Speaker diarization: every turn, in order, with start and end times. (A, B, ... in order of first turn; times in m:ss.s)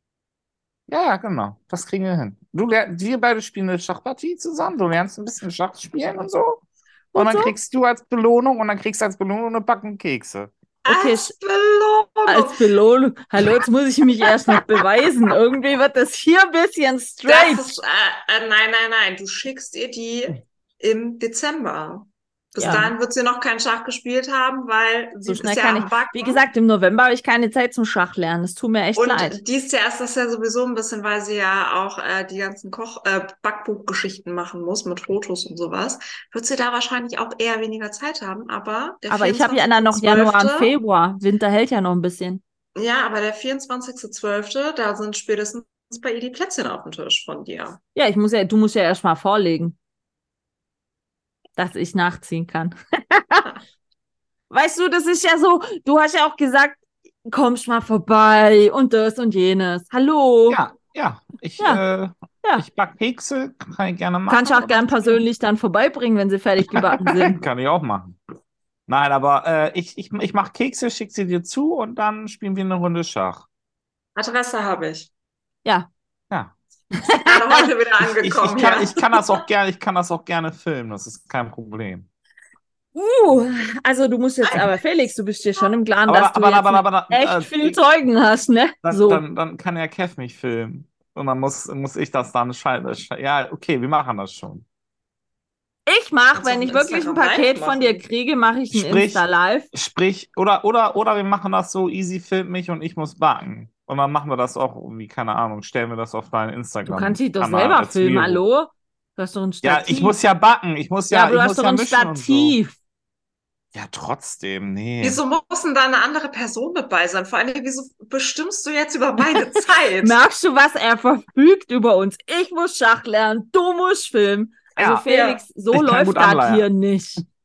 0:00.9-0:06.6 A
0:07.1-0:07.5 B
0:07.2-0:10.5 A
0:10.8-0:12.6 C
0:10.9-0:11.3 B
0:12.3-0:17.7 B
0:14.3-0:14.6 C
0:17.3-0:26.4 C
0:22.6-0:22.9 B
0:25.2-0:29.4 B
0:29.0-0:40.7 C
0:39.1-0:42.4 B
0:42.8-0:47.8 C
0:48.0-0:49.8 B
0:51.6-0:53.5 B
0:54.5-1:00.6 B
1:00.5-1:04.9 A
1:04.3-1:07.4 B
1:06.7-1:08.2 A
1:08.9-1:13.5 A
1:14.2-1:15.1 C
1:17.0-1:17.7 B
1:17.2-1:19.4 C
1:18.2-1:22.1 A
1:23.0-1:29.2 B
1:26.1-1:27.8 A
1:28.8-1:34.6 A
1:35.9-1:39.7 B
1:36.4-1:38.0 C
1:38.7-1:48.4 A
1:46.9-1:50.2 B
1:49.6-1:52.6 A
1:51.1-1:52.8 B
1:53.7-1:55.2 A
1:55.0-2:00.2 C
2:00.0-2:07.2 B
2:04.8-2:05.0 A
2:05.1-2:05.4 C
2:05.7-2:06.7 A